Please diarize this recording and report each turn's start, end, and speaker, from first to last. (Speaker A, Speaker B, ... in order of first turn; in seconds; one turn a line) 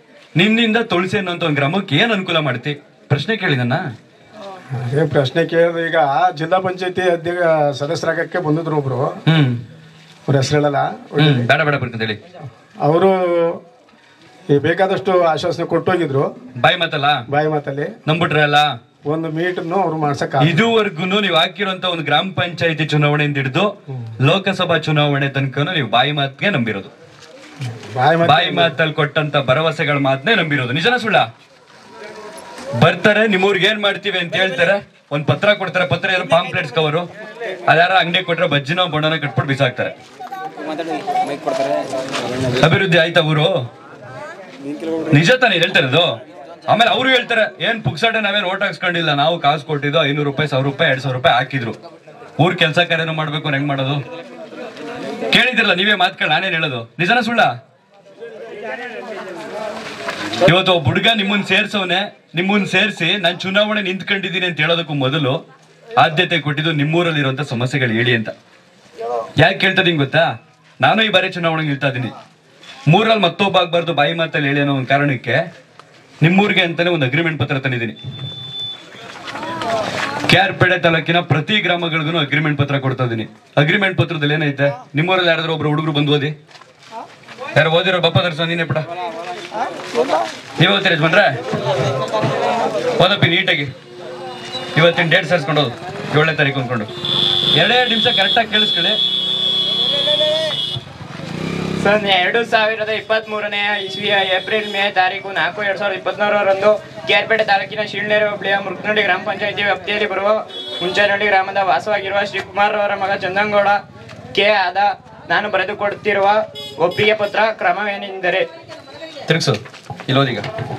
Speaker A: 0.3-3.9
Speaker B: 4.7-9.1
Speaker A: 9.3-9.6
Speaker B: 10.3-11.5
Speaker A: 11.2-12.2
Speaker B: 12.8-13.6
Speaker B: 14.5-16.3
Speaker A: 16.6-17.2
Speaker B: 17.3-17.9
Speaker A: 18.1-18.7
Speaker B: 19.1-20.6
Speaker A: 20.4-26.9
Speaker B: 27.6-28.7
Speaker A: 28.2-31.3
Speaker A: 32.8-37.1
Speaker A: 37.7-39.9
Speaker A: 42.6-43.6
Speaker A: 45.1-51.8
Speaker A: 52.4-54.0
Speaker A: 55.3-57.5
Speaker A: 60.4-65.4
Speaker A: 66.0-68.3
Speaker A: 69.4-72.1
Speaker A: 72.9-75.5
Speaker A: 76.2-78.0
Speaker A: 80.3-86.3
Speaker A: 87.5-88.8
Speaker A: 90.6-91.3
Speaker A: 93.0-93.7
Speaker A: 94.7-96.9
Speaker A: 97.5-99.0
Speaker C: 101.8-113.8
Speaker C: 114.3-118.5
Speaker A: 119.3-120.5